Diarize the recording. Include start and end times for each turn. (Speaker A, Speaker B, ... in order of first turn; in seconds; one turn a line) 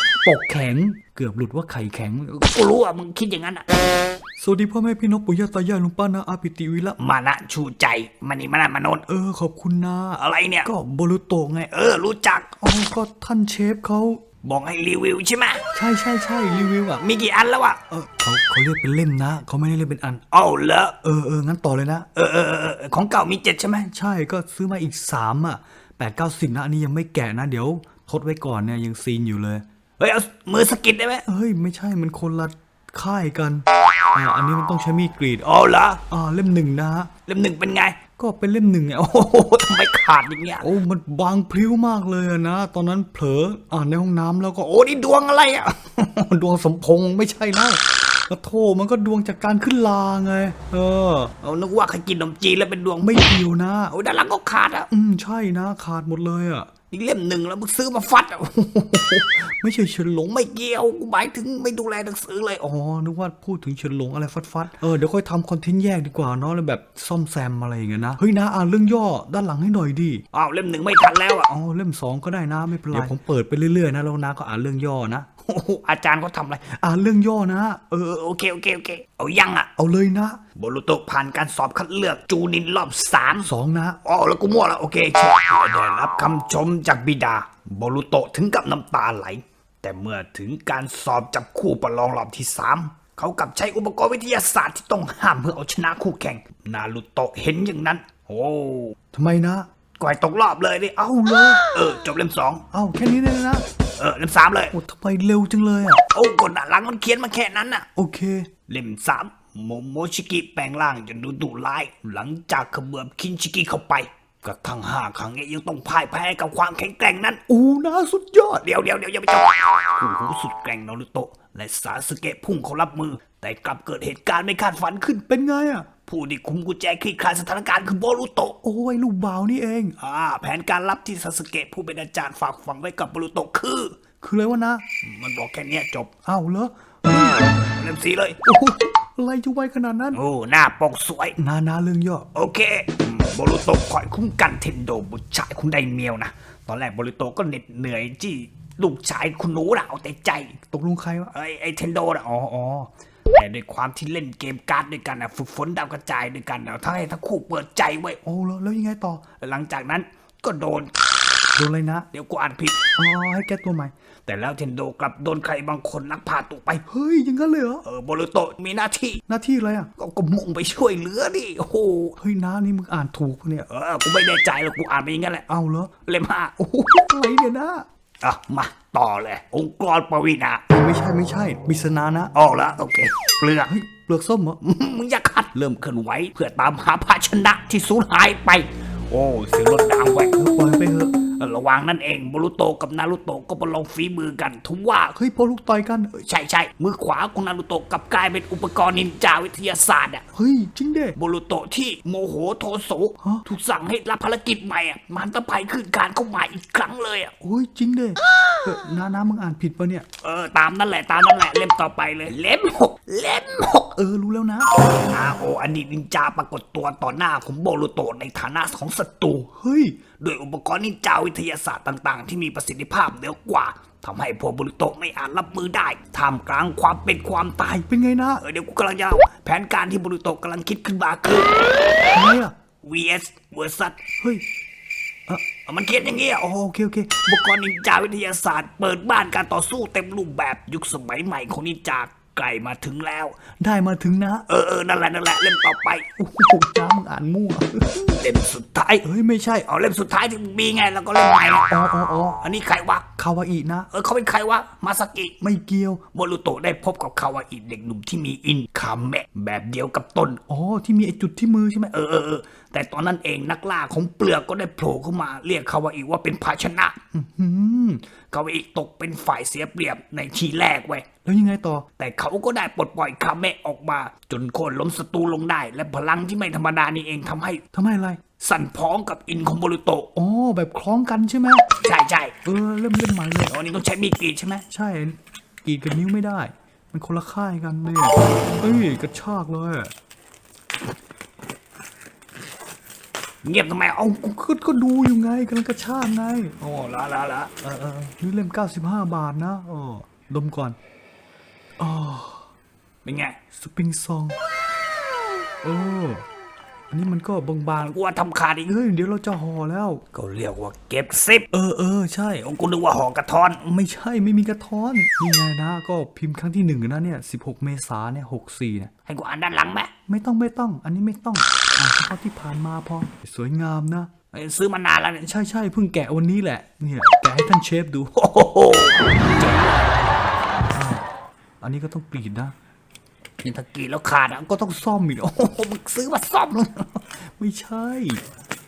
Speaker A: 0.2-2.5
Speaker B: 2.4-3.7
Speaker A: 4.4-7.0
Speaker B: 7.0-9.1
Speaker A: 9.1-11.7
Speaker B: 10.2-10.7
Speaker B: 11.7-12.6
Speaker A: 12.6-14.2
Speaker B: 14.4-15.7
Speaker A: 15.7-17.1
Speaker B: 17.0-17.8
Speaker A: 17.9-20.2
Speaker B: 20.3-21.0
Speaker A: 21.0-22.1
Speaker B: 22.1-23.9
Speaker A: 23.9-29.6
Speaker B: 30.0-31.2
Speaker A: 31.3-35.5
Speaker B: 35.4-36.0
Speaker A: 36.1-37.1
Speaker B: 37.3-38.0
Speaker A: 38.2-39.5
Speaker B: 39.3-40.6
Speaker A: 40.6-44.8
Speaker B: 44.7-46.1
Speaker A: 46.1-51.3
Speaker B: 51.4-53.3
Speaker A: 53.0-53.9
Speaker B: 53.9-54.9
Speaker A: 54.9-56.7
Speaker B: 56.9-59.3
Speaker A: 59.3-60.4
Speaker B: 60.3-62.7
Speaker A: 62.6-70.2
Speaker B: 70.3-71.5
Speaker A: 71.5-75.3
Speaker B: 75.5-76.8
Speaker A: 76.8-78.0
Speaker B: 78.0-79.7
Speaker A: 79.8-80.4
Speaker B: 80.5-83.5
Speaker A: 83.4-84.0
Speaker B: 84.0-99.0
Speaker A: 99.1-99.7
Speaker B: 100.0-102.7
Speaker A: 102.7-103.7
Speaker B: 104.0-104.8
Speaker A: 104.7-106.0
Speaker B: 106.1-107.9
Speaker A: 108.0-108.5
Speaker B: 108.7-117.4
Speaker A: 117.5-118.6
Speaker B: 118.5-125.2
Speaker A: 125.3-125.9
Speaker B: 126.1-128.6
Speaker A: 128.6-130.0
Speaker B: 130.0-134.0
Speaker A: 134.2-134.9
Speaker B: 135.0-136.1
Speaker A: 136.2-137.5
Speaker B: 137.7-138.5
Speaker A: 138.4-140.2
Speaker B: 140.1-141.4
Speaker A: 141.4-142.3
Speaker B: 142.3-150.5
Speaker A: 150.6-151.3
Speaker B: 151.3-158.2
Speaker A: 158.2-159.3
Speaker B: 159.4-160.9
Speaker A: 161.6-162.1
Speaker B: 162.1-162.8
Speaker A: 163.0-163.9
Speaker B: 164.3-166.8
Speaker A: 166.9-167.8
Speaker B: 167.8-169.2
Speaker A: 169.3-169.9
Speaker B: 170.0-172.2
Speaker A: 172.2-173.7
Speaker B: 173.7-175.5
Speaker A: 175.5-175.9
Speaker B: 176.1-176.9
Speaker A: 176.9-177.9
Speaker B: 178.2-180.6
Speaker A: 180.7-182.3
Speaker B: 182.3-183.7
Speaker A: 183.7-184.7
Speaker B: 184.7-190.4
Speaker A: 190.4-191.2
Speaker B: 191.2-195.2
Speaker A: 195.2-196.2
Speaker B: 196.2-200.2
Speaker A: 200.3-201.2
Speaker B: 201.2-207.3
Speaker A: 207.4-210.1
Speaker B: 210.2-213.9
Speaker A: 213.9-214.7
Speaker B: 214.8-219.5
Speaker A: 219.5-220.0
Speaker B: 220.2-227.8
Speaker A: 227.7-228.4
Speaker B: 228.4-231.5
Speaker A: 232.1-232.6
Speaker B: 232.8-234.0
Speaker B: 235.7-236.5
Speaker A: 236.4-237.2
Speaker B: 237.2-243.4
Speaker A: 243.6-244.5
Speaker B: 244.5-246.1
Speaker A: 246.2-248.2
Speaker B: 248.1-249.1
Speaker A: 249.0-249.7
Speaker B: 249.6-251.8
Speaker A: 251.7-252.4
Speaker B: 252.4-253.1
Speaker A: 253.2-253.9
Speaker B: 253.9-255.3
Speaker A: 255.4-256.0
Speaker B: 256.1-260.4
Speaker A: 260.5-261.9
Speaker B: 261.9-267.0
Speaker A: 267.1-268.1
Speaker B: 268.3-271.1
Speaker A: 271.2-271.9
Speaker B: 272.0-277.6
Speaker A: 277.7-278.2
Speaker B: 278.4-280.1
Speaker A: 280.1-281.7
Speaker B: 281.8-282.4
Speaker A: 282.4-283.5
Speaker B: 283.5-284.7
Speaker A: 284.7-289.9
Speaker B: 293.4-294.2
Speaker A: 294.1-296.6
Speaker B: 296.6-297.5
Speaker A: 297.6-300.8
Speaker A: 301.8-302.5
Speaker B: 303.0-303.4
Speaker A: 303.5-304.4
Speaker A: 305.6-306.2
Speaker A: 306.9-308.0
Speaker B: 307.9-308.7
Speaker A: 308.7-310.0
Speaker B: 310.1-311.5
Speaker A: 311.5-312.5
Speaker B: 312.4-313.6
Speaker A: 313.6-318.9
Speaker B: 319.1-319.9
Speaker A: 320.1-324.1
Speaker B: 324.3-325.3
Speaker A: 325.2-328.2
Speaker B: 328.2-329.9
Speaker A: 330.7-331.1
Speaker A: 331.6-332.6
Speaker B: 333.4-334.7
Speaker A: 334.5-335.6
Speaker B: 335.5-336.8
Speaker A: 336.9-338.2